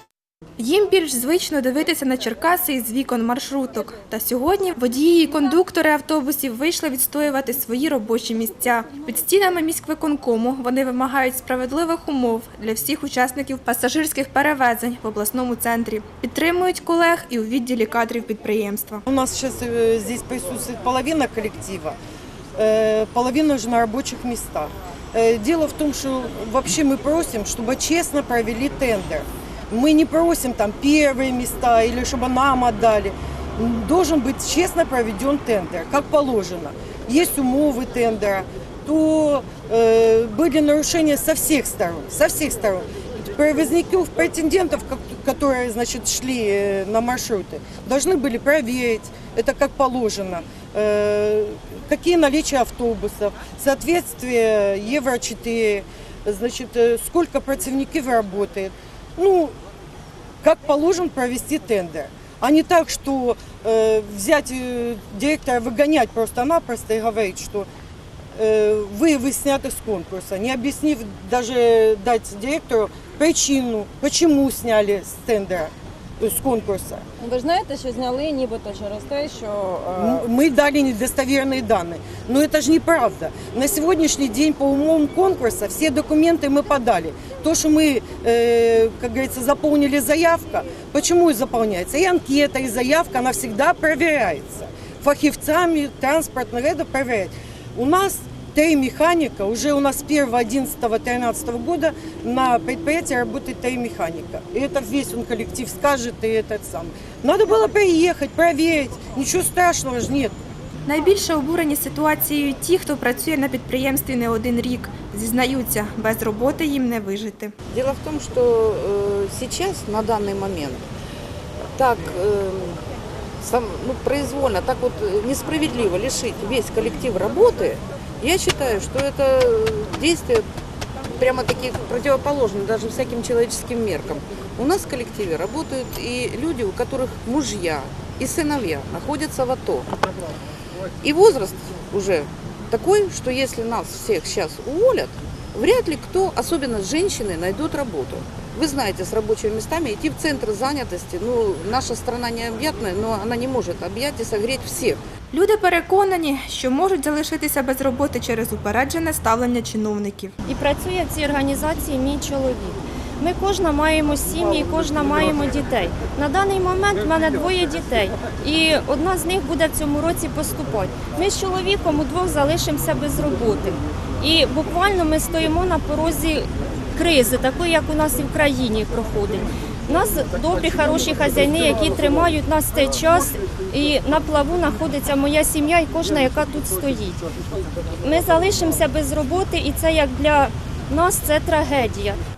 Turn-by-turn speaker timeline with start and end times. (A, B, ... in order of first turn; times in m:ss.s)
0:00.6-0:19.0 A
0:19.1-0:22.0 B
0:22.6-0:59.5 B
1:00.4-1:07.7 B
1:08.3-1:17.0 B
1:17.2-1:20.2 C
1:19.9-1:50.3 B
1:50.8-1:57.5 A
1:57.7-2:00.8 D
2:01.7-2:02.8 D
2:03.4-2:10.4 D
2:11.2-2:19.9 D
2:21.0-2:35.0 D
2:35.3-2:40.3 A
2:40.4-3:07.2 E
3:08.0-3:12.2 E